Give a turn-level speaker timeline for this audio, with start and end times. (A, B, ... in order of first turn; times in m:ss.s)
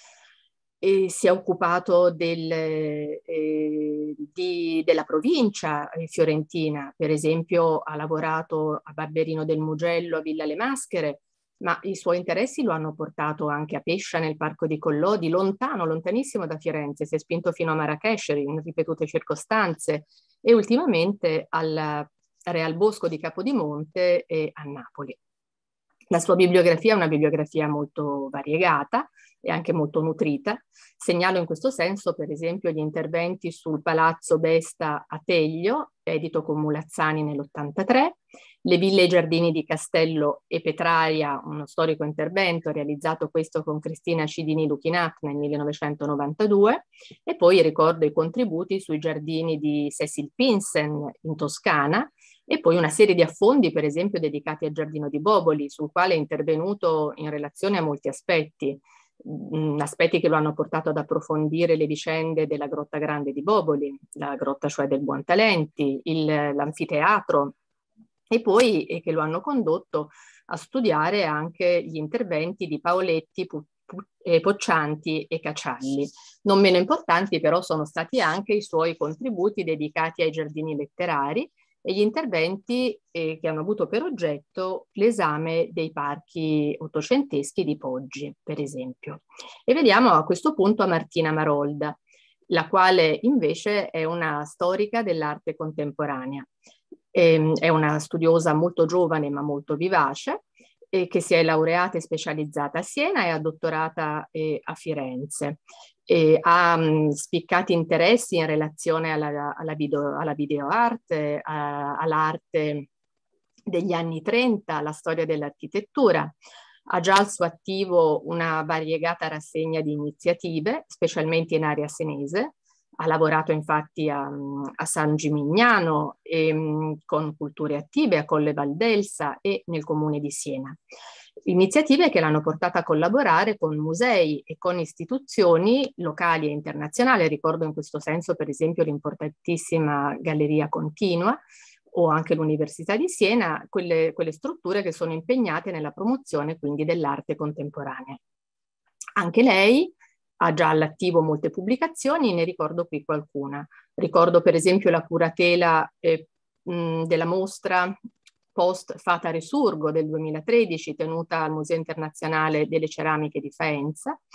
0:00.8-0:25.2 A
0:26.1-1:07.6 A
1:08.3-1:32.0 A
1:32.5-1:36.5 A
1:37.1-1:52.9 A
1:53.7-1:56.3 A
1:56.9-2:10.8 A
2:11.5-2:21.4 A
2:21.9-2:28.2 A
2:29.2-2:38.0 A
2:38.5-2:44.2 A